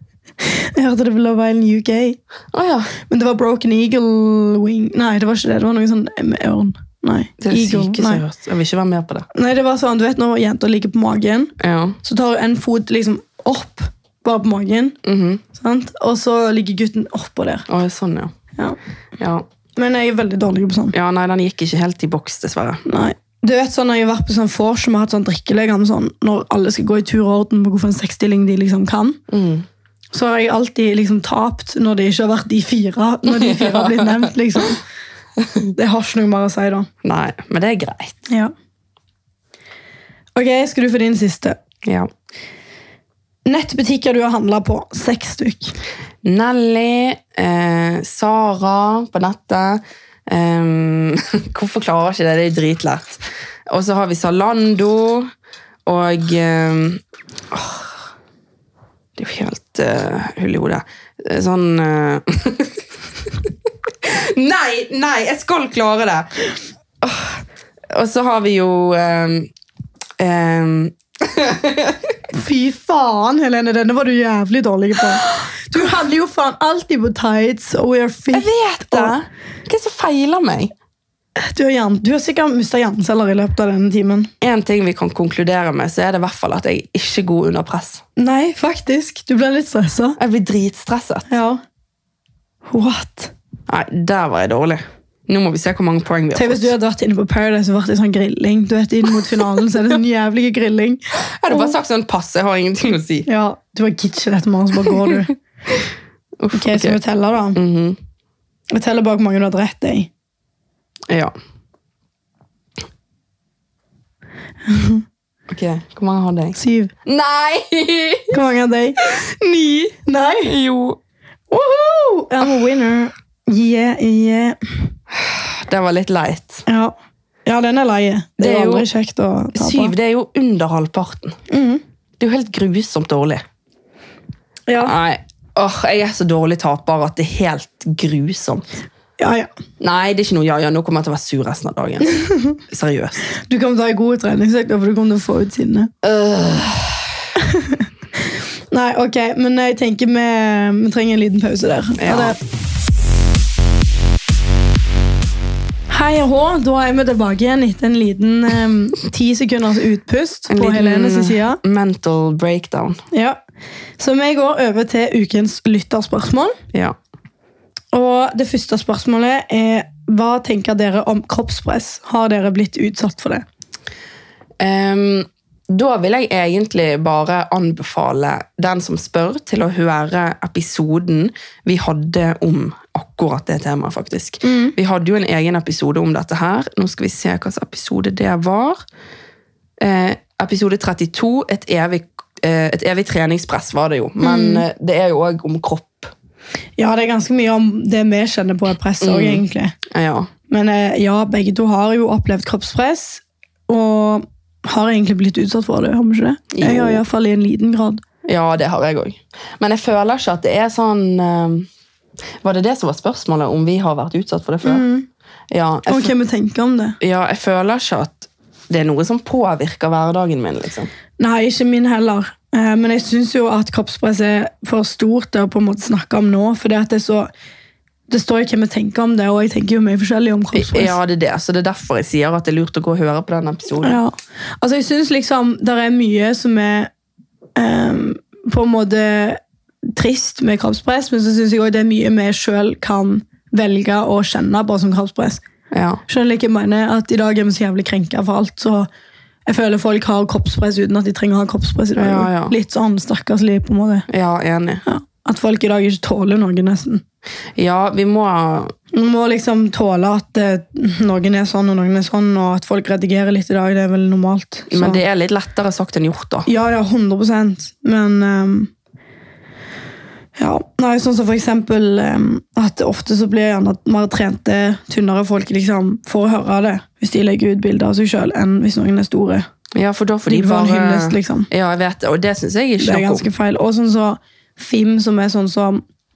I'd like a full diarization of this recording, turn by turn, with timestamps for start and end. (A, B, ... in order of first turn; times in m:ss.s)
0:00.4-0:02.2 A
0:02.5-0:02.9 B
0:03.1-0:08.2 A
0:07.4-0:09.3 B
0:09.3-0:15.0 A
0:11.6-0:12.0 B
0:15.0-0:15.4 B
0:15.5-0:17.7 A
0:17.7-0:18.3 B
0:19.2-0:19.4 B
0:19.8-0:21.0 A
0:20.9-0:22.8 B
0:22.8-0:29.2 A
0:29.3-0:29.7 B
0:30.1-0:34.8 A
0:33.3-0:34.6 B
0:35.4-0:35.7 B
0:35.7-0:36.9 A
0:37.0-0:38.2 B
0:40.4-0:41.6 A
0:41.8-0:42.1 B
0:43.5-0:45.8 A
0:46.2-0:55.3 B
0:55.9-0:58.0 B
0:59.2-1:03.5 B
1:04.0-1:06.3 B
1:07.0-1:09.5 B
1:10.2-1:12.0 B
1:12.3-1:19.2 A
1:15.0-1:15.8 B
1:18.3-1:20.7 B
1:21.4-1:24.3 A
1:24.4-1:28.0 B
1:28.2-1:30.2 A
1:30.2-1:31.3 B
1:31.3-1:31.6 A
1:32.7-1:33.3 A
1:33.7-1:36.7 B
1:36.3-1:41.8 A
1:41.4-1:43.3 B
1:43.3-1:45.4 A
1:44.9-1:45.8 B
1:46.4-1:47.0 B
1:46.5-1:47.6 A
1:47.6-1:48.0 B
1:48.7-1:50.1 A
1:51.1-1:51.3 B
1:54.7-1:55.0 A
1:55.5-1:58.4 B
1:56.6-1:56.9 A
1:58.3-1:59.1 A
1:59.0-1:59.9 B
2:00.0-2:00.6 A
2:00.4-2:01.0 B
2:01.5-2:04.6 A
2:05.1-2:06.6 B
2:06.7-2:07.0 A
2:07.5-2:09.9 A
2:08.4-2:08.9 B
2:09.6-2:11.4 B
2:11.5-2:11.8 A
2:12.2-2:13.4 B
2:14.7-2:14.9 A
2:14.8-2:18.6 B
2:19.2-2:19.5 A
2:19.8-2:23.2 B
2:22.1-2:22.6 A
2:23.3-2:25.9 A
2:26.0-2:27.3 B
2:27.4-2:27.9 A
2:28.7-2:32.4 A
2:32.0-2:32.4 B
2:35.9-2:41.6 A
2:40.5-2:43.0 B
2:43.1-2:43.4 A
2:44.0-2:46.6 A
2:47.9-2:53.4 A
2:54.6-3:08.8 B
3:04.4-3:04.8 A
3:09.8-3:16.1 B
3:14.2-3:14.6 A
3:16.8-3:19.8 A
3:19.0-3:20.3 B
3:20.5-3:28.0 A
3:26.5-3:27.0 B
3:28.2-3:31.7 B
3:32.4-3:34.8 B
3:34.6-3:35.1 A
3:35.5-3:36.1 B
3:35.9-3:37.0 A
3:37.0-3:40.9 B
3:41.2-3:47.3 A
3:48.1-3:51.0 A
3:50.5-3:54.0 B
3:53.8-3:56.9 A
3:57.6-4:05.4 A
4:05.7-4:06.0 B
4:06.1-4:08.9 A
4:09.5-4:14.1 A
4:12.0-4:12.6 B
4:14.1-4:14.8 B
4:14.8-4:17.0 A
4:17.6-4:18.7 B
4:18.9-4:25.0 A
4:24.7-4:26.5 B
4:26.5-4:28.7 A
4:30.4-4:39.5 A
4:39.8-4:43.3 B
4:40.3-4:41.5 A
4:42.8-4:45.8 A